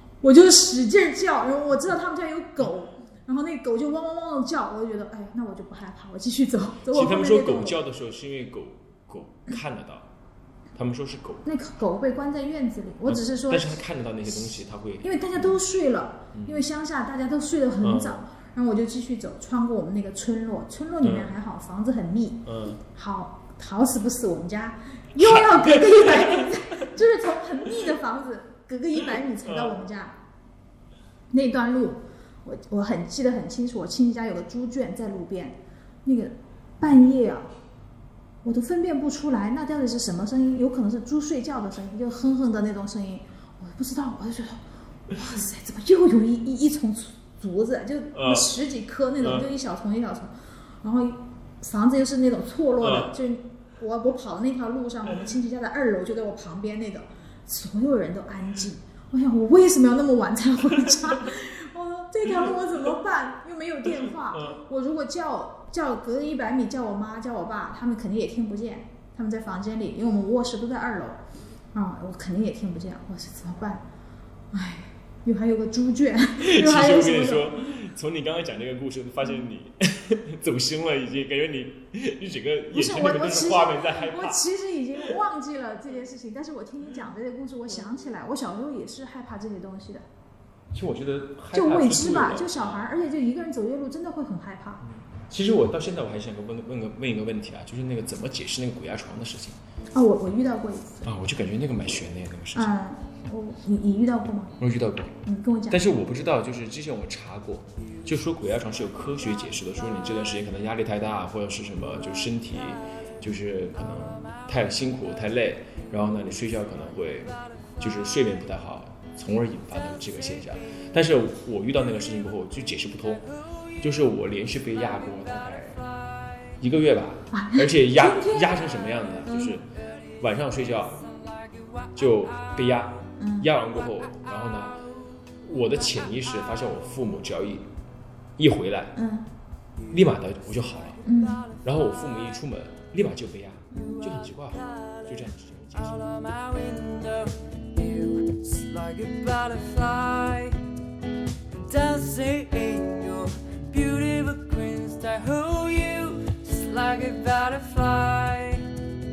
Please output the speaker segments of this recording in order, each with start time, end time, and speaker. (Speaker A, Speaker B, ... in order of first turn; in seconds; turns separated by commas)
Speaker A: 0.2-7.8, Speaker B: 6.9-10.1, Speaker B: 10.8-11.4, Speaker A: 11.4-13.8, Speaker B: 13.1-15.6, Speaker A: 15.0-30.1, Speaker B: 16.3-16.6, Speaker B: 17.8-18.2, Speaker B: 21.0-21.3, Speaker B: 22.4-22.8, Speaker B: 25.2-26.6, Speaker B: 29.4-29.8, Speaker A: 31.3-37.5, Speaker A: 38.4-50.3, Speaker B: 48.1-48.5, Speaker B: 49.2-49.5, Speaker A: 50.8-71.2, Speaker B: 52.8-53.1, Speaker B: 63.9-64.6, Speaker A: 71.7-73.8, Speaker A: 74.5-77.6, Speaker B: 76.4-84.4, Speaker A: 82.7-90.0, Speaker B: 90.7-92.9, Speaker A: 91.5-94.8, Speaker B: 95.1-99.6, Speaker A: 99.9-101.1, Speaker B: 101.0-102.7, Speaker A: 102.5-104.6, Speaker B: 104.6-105.2, Speaker A: 105.2-105.8, Speaker B: 105.7-123.2, Speaker C: 117.1-117.8, Speaker C: 120.1-120.8, Speaker B: 123.8-125.8, Speaker C: 124.9-126.6, Speaker B: 126.6-129.7, Speaker A: 127.3-128.6, Speaker A: 129.3-129.5, Speaker C: 129.7-130.1, Speaker B: 130.2-131.1, Speaker C: 130.9-132.6, Speaker B: 131.9-134.8, Speaker A: 133.2-133.5, Speaker B: 135.4-137.7, Speaker B: 138.4-138.9, Speaker A: 138.9-139.3, Speaker B: 139.9-141.0, Speaker A: 141.0-141.5, Speaker B: 141.6-146.0, Speaker C: 143.8-145.1, Speaker C: 145.7-150.6, Speaker C: 151.6-158.8